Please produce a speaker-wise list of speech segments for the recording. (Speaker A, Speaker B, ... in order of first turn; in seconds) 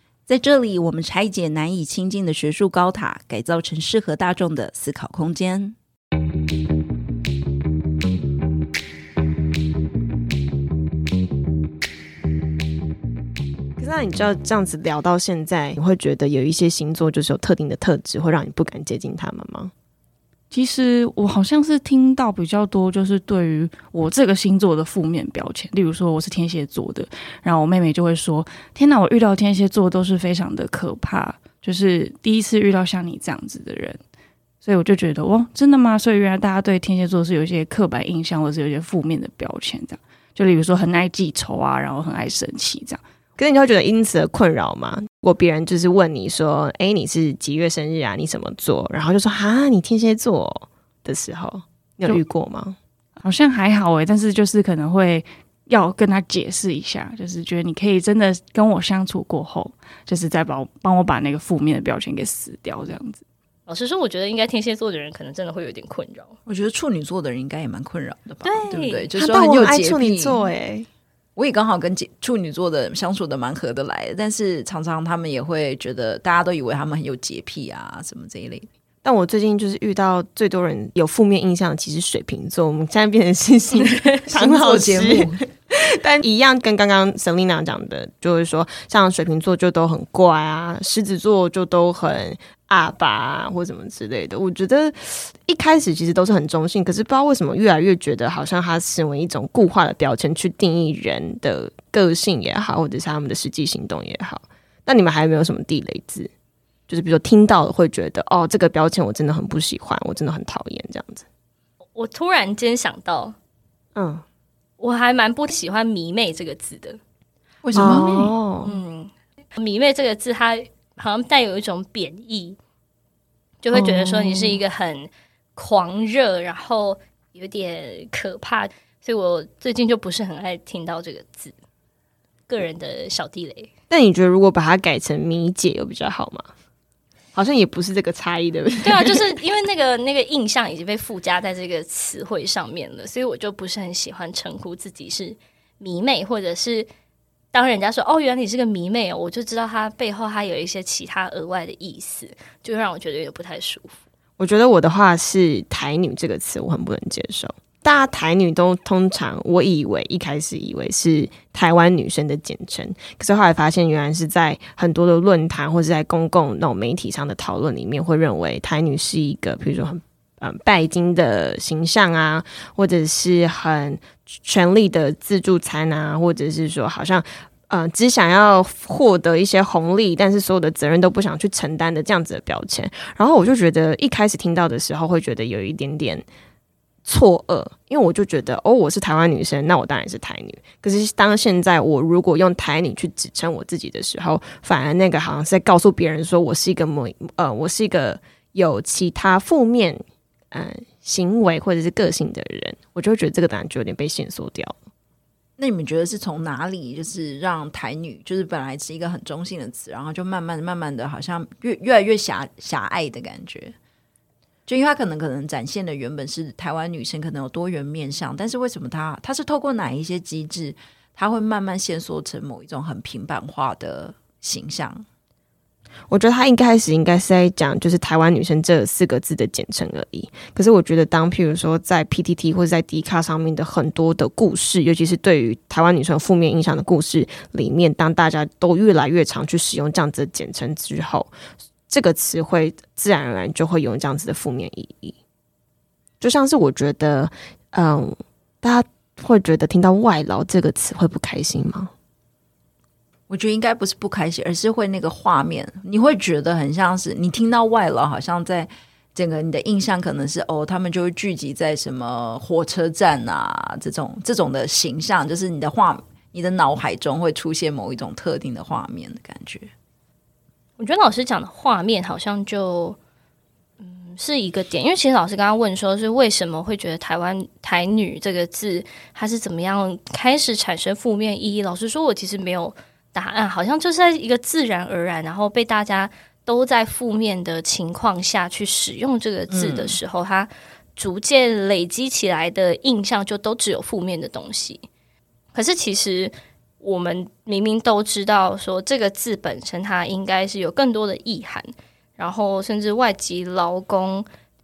Speaker A: 0.3-5.7, 66.5-70.4, 71.3-78.7, 84.3-85.4, 117.6-118.3, 205.6-213.7, 214.7-225.0, 253.3-269.7, 289.5-290.0
Speaker B: 13.8-19.7, 43.4-52.8, 69.2-70.9, 79.0-106.3, 106.9-111.2, 113.9-114.2, 117.7-118.7, 123.7-124.6, 133.9-136.5, 137.3-139.3, 154.4-186.2, 187.0-204.8, 226.1-241.3, 241.9-245.2, 246.2-251.9
Speaker C: 20.5-34.0, 34.6-43.0, 53.2-63.2
Speaker D: 63.7-66.3, 68.4-69.1, 111.9-113.3, 114.8-117.0, 118.6-122.6, 123.6-131.5, 132.5-133.7, 138.8-146.9, 147.5-154.0, 270.8-273.0, 273.8-294.9, 295.5-304.3